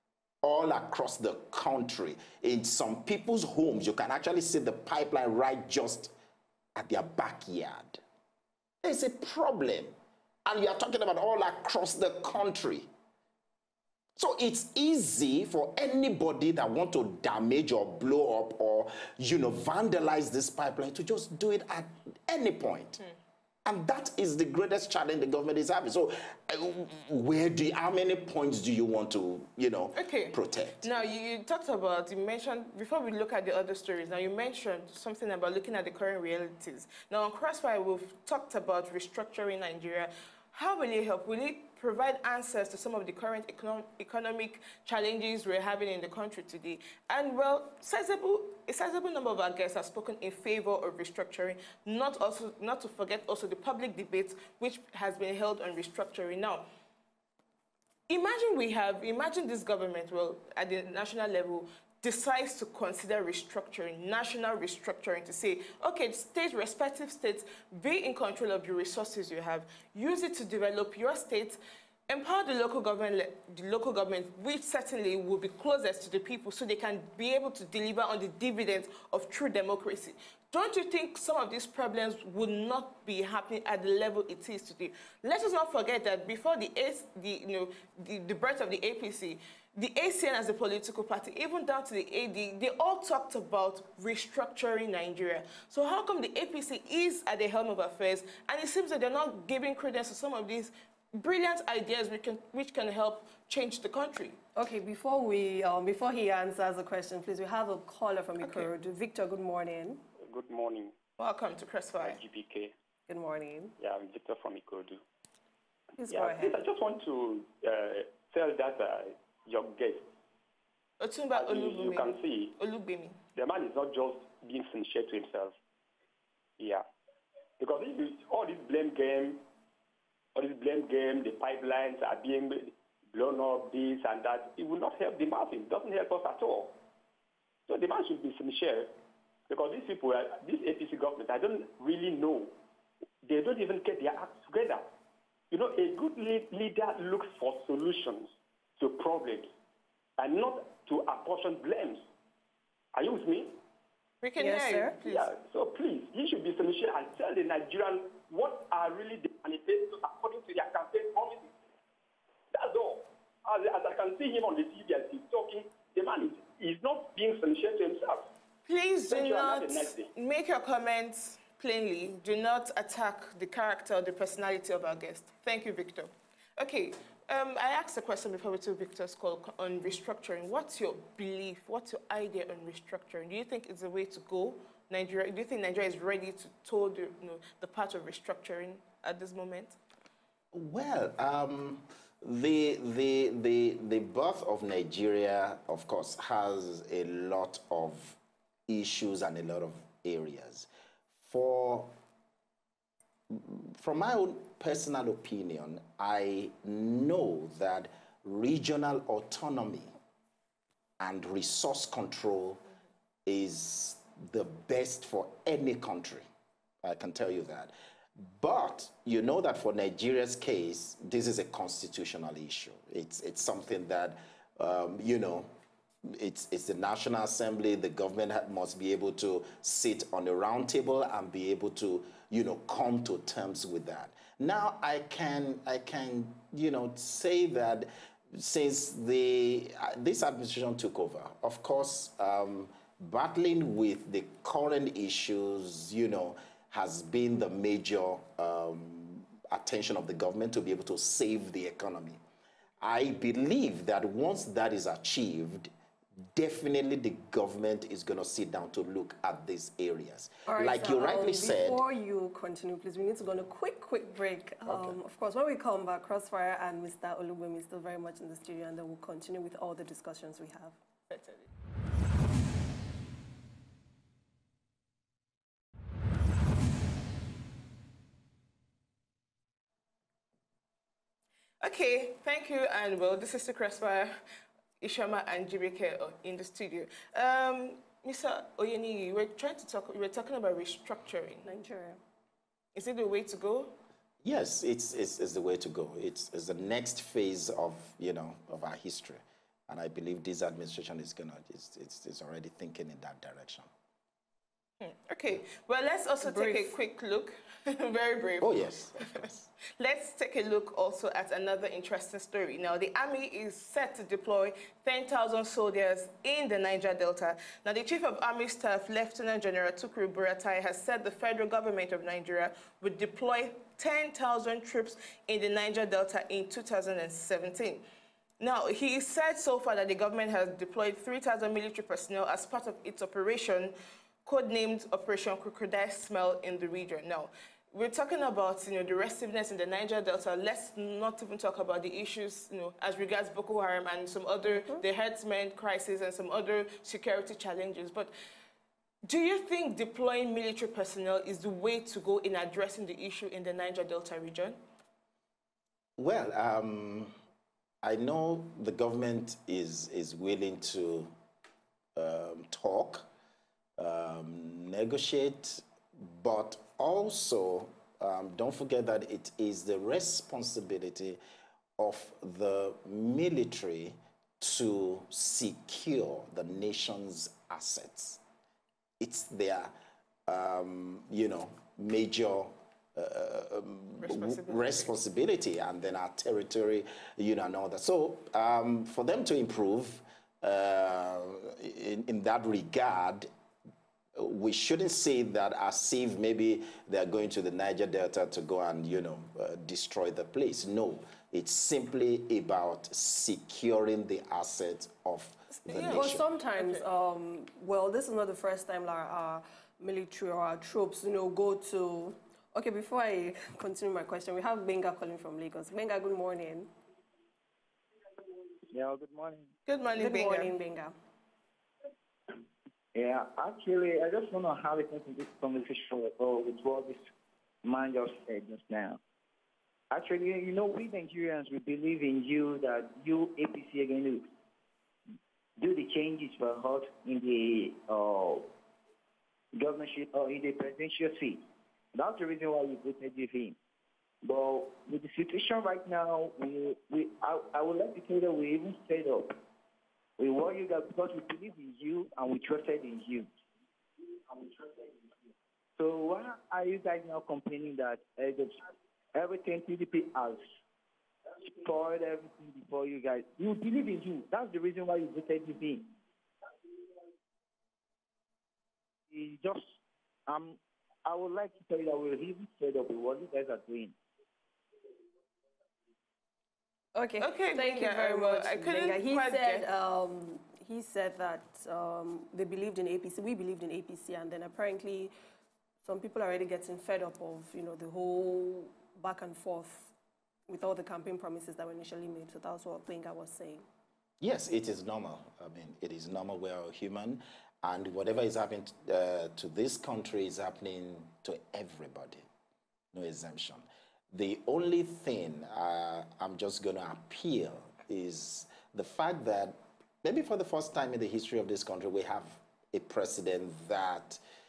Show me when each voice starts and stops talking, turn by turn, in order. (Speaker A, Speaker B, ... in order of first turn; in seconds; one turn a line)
Speaker A: 0.4-6.1
Speaker A: 6.8-8.0
Speaker A: 8.8-9.9
Speaker A: 10.4-12.9
Speaker A: 14.2-23.0
Speaker A: 23.6-30.9
Speaker B: 30.0-56.6
Speaker B: 58.1-104.4
Speaker C: 104.6-110.0
Speaker B: 108.4-108.7
Speaker D: 110.2-111.0
Speaker B: 111.2-112.2
Speaker D: 112.0-112.7
Speaker C: 113.1-113.7
Speaker D: 113.8-115.0
Speaker C: 116.0-116.6
Speaker D: 116.1-120.1
Speaker B: 121.0-123.2
Speaker D: 121.3-122.5
Speaker D: 123.3-125.5
Speaker D: 126.6-126.9
Speaker D: 127.6-129.4
Speaker D: 130.3-136.8
Speaker D: 137.7-138.9
Speaker D: 139.5-142.6
Speaker D: 143.2-144.9
Speaker D: 145.5-149.5
Speaker D: 150.2-152.0
Speaker D: 152.9-153.6
Speaker B: 154.2-155.3
Speaker C: 154.4-154.9
Speaker D: 155.0-161.5
Speaker D: 162.5-168.3
Speaker B: 168.7-189.8
Speaker D: 169.1-170.1
Speaker A: 190.5-200.7
Speaker A: 201.3-201.9
Speaker A: 203.3-209.9
Speaker A: 211.0-212.6
Speaker A: 213.3-216.2
Speaker A: 216.8-225.5
Speaker A: 226.1-252.2
Speaker A: 252.8-255.7
Speaker A: 256.3-261.8
Speaker C: 260.5-270.8
Speaker A: 264.7-265.0
Speaker B: 271.1-271.5
Speaker B: 281.6-284.1
Speaker B: 284.8-291.5
Speaker C: 291.4-292.0
Speaker B: 292.8-293.7
Speaker A: 294.2-303.7
Speaker B: 304.8-327.8
Speaker C: 306.2-306.7
Speaker A: 308.4-309.5
Speaker B: 328.4-333.8
Speaker B: 334.3-348.1
Speaker C: 344.5-344.8
Speaker B: 349.1-354.6
Speaker A: 356.0-357.1
Speaker A: 357.8-361.1
Speaker A: 362.0-363.1
Speaker A: 363.8-371.2
Speaker A: 371.8-378.2
Speaker A: 379.0-379.7
Speaker A: 380.3-393.3
Speaker B: 384.0-384.9
Speaker A: 394.1-406.2
Speaker B: 405.6-406.8
Speaker C: 405.9-416.7
Speaker E: 418.7-419.5
Speaker B: 419.7-420.5
Speaker C: 420.0-420.9
Speaker E: 422.9-427.1
Speaker E: 427.6-429.0
Speaker E: 429.9-434.2
Speaker E: 435.6-438.5
Speaker E: 439.6-443.6
Speaker E: 444.2-449.4
Speaker E: 450.2-453.3
Speaker E: 454.4-454.8
Speaker E: 455.8-458.6
Speaker E: 459.1-460.4
Speaker E: 461.4-465.9
Speaker E: 469.1-469.8
Speaker E: 470.3-473.9
Speaker C: 476.9-485.1
Speaker B: 477.2-479.6
Speaker C: 485.8-489.9
Speaker C: 490.5-493.6
Speaker A: 494.2-502.3
Speaker A: 502.9-514.2